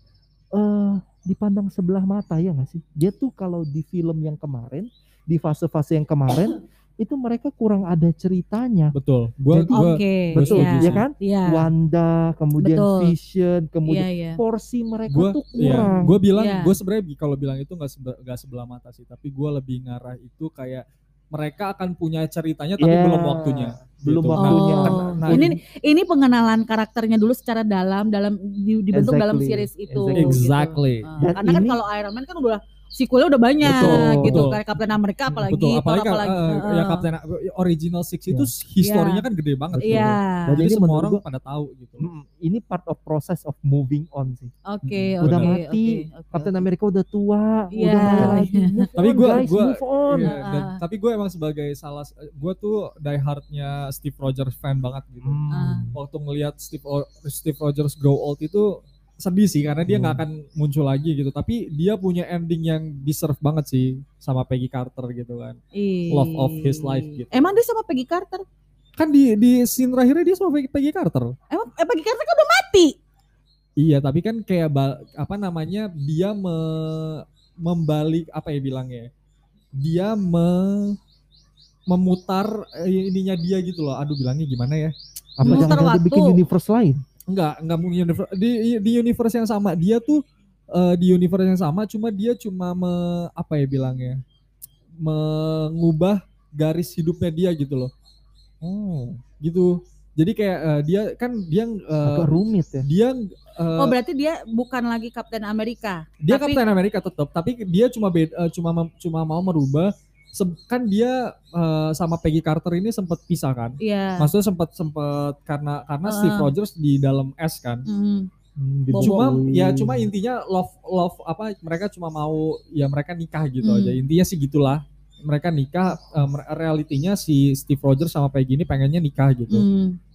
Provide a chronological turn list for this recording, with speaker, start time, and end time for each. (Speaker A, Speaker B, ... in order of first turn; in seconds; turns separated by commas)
Speaker A: 0.5-8.9, Speaker B: 8.9-11.0, Speaker A: 9.5-16.2, Speaker C: 9.7-11.7, Speaker C: 12.6-13.1, Speaker C: 13.8-14.4, Speaker B: 15.1-25.5, Speaker C: 15.6-16.8, Speaker A: 22.8-25.6, Speaker C: 24.4-37.0, Speaker A: 28.9-30.5, Speaker B: 30.2-31.1, Speaker A: 31.2-31.8, Speaker A: 33.6-34.5, Speaker B: 33.6-34.6, Speaker B: 35.5-42.1, Speaker C: 38.8-39.2, Speaker A: 39.7-41.2, Speaker C: 39.8-40.6, Speaker A: 42.0-44.5, Speaker C: 44.6-46.6, Speaker B: 44.8-45.6, Speaker A: 45.2-50.4, Speaker C: 47.7-48.9, Speaker B: 48.0-48.4, Speaker B: 49.0-55.4, Speaker C: 50.2-50.8, Speaker A: 55.2-56.0, Speaker C: 55.5-55.9, Speaker B: 55.9-65.6, Speaker A: 59.9-60.2, Speaker C: 65.7-68.4, Speaker B: 66.1-67.6, Speaker B: 69.0-71.3, Speaker C: 71.5-73.0, Speaker B: 73.8-79.1, Speaker B: 79.8-81.0, Speaker B: 81.9-85.8, Speaker A: 85.4-87.0, Speaker C: 85.4-86.4, Speaker B: 87.3-94.2, Speaker B: 95.0-97.9, Speaker A: 98.6-99.2, Speaker B: 99.4-104.0, Speaker A: 102.0-102.9, Speaker C: 103.8-106.6, Speaker B: 106.2-117.8, Speaker C: 113.8-114.3, Speaker C: 116.0-116.5, Speaker C: 117.8-118.3, Speaker A: 118.6-120.1, Speaker C: 118.9-119.3, Speaker B: 119.0-129.7, Speaker C: 123.6-124.0, Speaker C: 129.5-130.0